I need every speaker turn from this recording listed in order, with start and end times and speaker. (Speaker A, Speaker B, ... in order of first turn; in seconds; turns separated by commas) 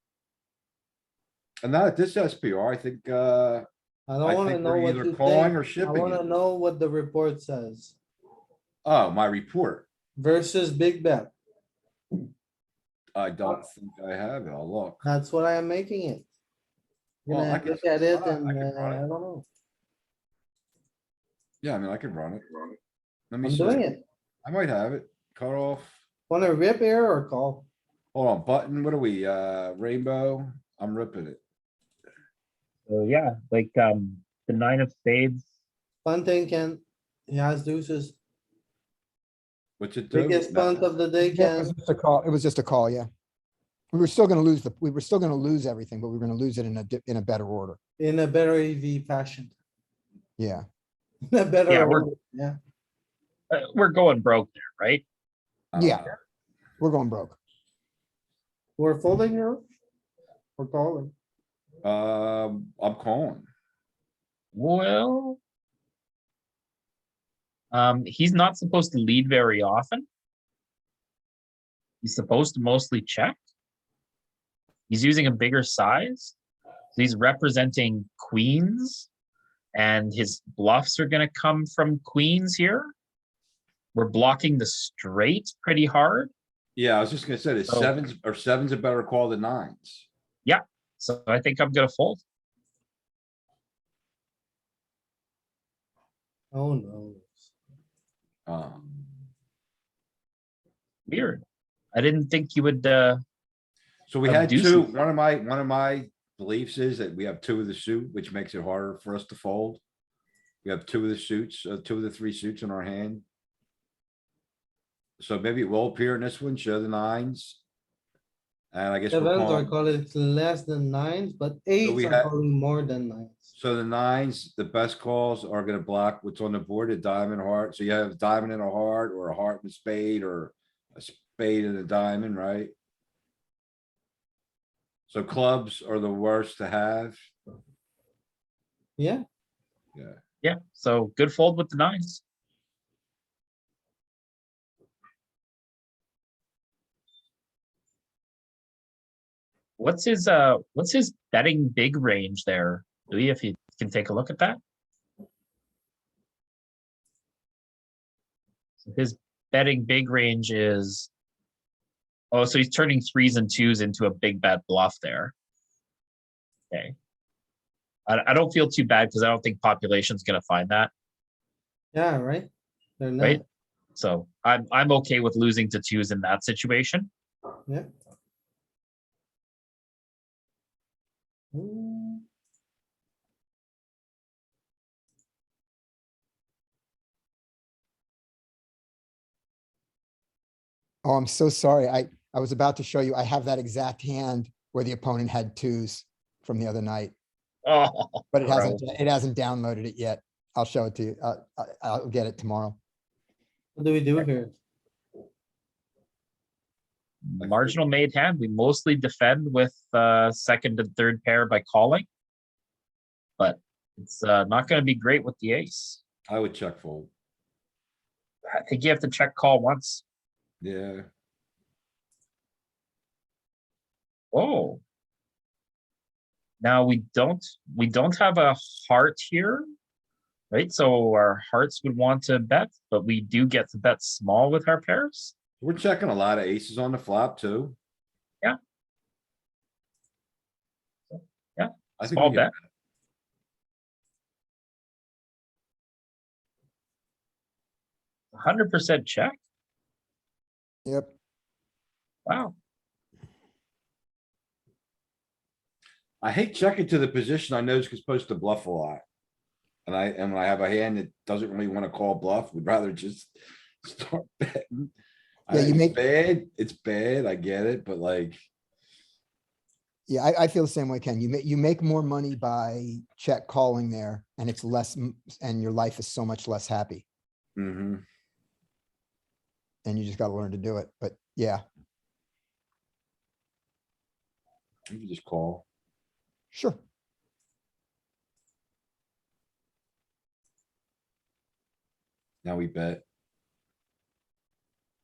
Speaker A: 1.6-3.6, Speaker B: 4.1-8.0, Speaker A: 4.2-6.2, Speaker A: 8.8-9.8, Speaker B: 10.2-11.3, Speaker A: 13.1-15.0, Speaker B: 15.0-16.3, Speaker B: 17.2-19.4, Speaker A: 17.3-19.0, Speaker A: 21.6-22.7, Speaker A: 23.3-23.8, Speaker B: 23.4-24.0, Speaker A: 24.4-25.9, Speaker B: 26.3-27.7, Speaker A: 28.1-31.4, Speaker C: 32.9-35.4, Speaker B: 36.0-38.2, Speaker A: 39.8-40.8, Speaker B: 40.1-41.7, Speaker D: 41.2-43.1, Speaker D: 43.9-47.8, Speaker B: 48.0-49.5, Speaker D: 50.4-50.6, Speaker B: 51.3-52.6, Speaker C: 51.7-52.1, Speaker C: 53.5-55.0, Speaker A: 55.7-56.1, Speaker D: 55.8-56.1, Speaker D: 56.8-57.4, Speaker B: 58.8-59.6, Speaker B: 60.5-61.1, Speaker A: 61.8-63.5, Speaker C: 64.5-65.4, Speaker C: 67.7-70.0, Speaker C: 72.0-73.4, Speaker C: 74.9-76.3, Speaker C: 76.9-79.1, Speaker C: 79.7-82.9, Speaker C: 83.9-86.3, Speaker A: 86.8-90.1, Speaker C: 87.7-87.9, Speaker C: 90.4-92.2, Speaker B: 96.5-97.5, Speaker A: 98.5-99.0, Speaker C: 101.1-103.2, Speaker A: 104.1-109.8, Speaker C: 104.2-104.9, Speaker A: 110.6-113.2, Speaker A: 115.2-117.6, Speaker A: 118.7-119.7, Speaker B: 119.1-123.5, Speaker A: 121.8-122.3, Speaker A: 123.5-132.7, Speaker A: 135.1-137.2, Speaker B: 139.0-139.2, Speaker C: 140.4-142.2, Speaker C: 149.8-154.6, Speaker C: 158.8-161.1, Speaker C: 162.3-165.3, Speaker C: 166.7-166.9, Speaker C: 168.1-170.9, Speaker B: 171.9-173.4, Speaker C: 173.9-177.1, Speaker B: 181.5-182.2, Speaker D: 191.0-197.1, Speaker C: 197.6-198.8, Speaker D: 198.3-202.8, Speaker B: 203.8-204.5, Speaker C: 207.2-212.1, Speaker A: 207.4-207.7, Speaker C: 213.4-216.0, Speaker A: 216.3-217.1, Speaker C: 218.5-220.0, Speaker A: 220.6-221.1, Speaker C: 224.3-224.8, Speaker C: 226.6-229.6, Speaker C: 230.5-235.3, Speaker A: 235.6-237.7, Speaker C: 241.1-242.5, Speaker A: 242.0-242.5, Speaker C: 248.3-249.4, Speaker D: 250.8-251.1, Speaker C: 252.2-252.5, Speaker A: 256.2-259.0, Speaker A: 259.9-264.9, Speaker A: 265.5-268.4, Speaker D: 265.5-265.9, Speaker D: 270.1-277.0, Speaker A: 277.6-278.0, Speaker D: 279.8-281.6, Speaker A: 284.9-285.6, Speaker D: 286.5-286.8, Speaker A: 292.4-293.0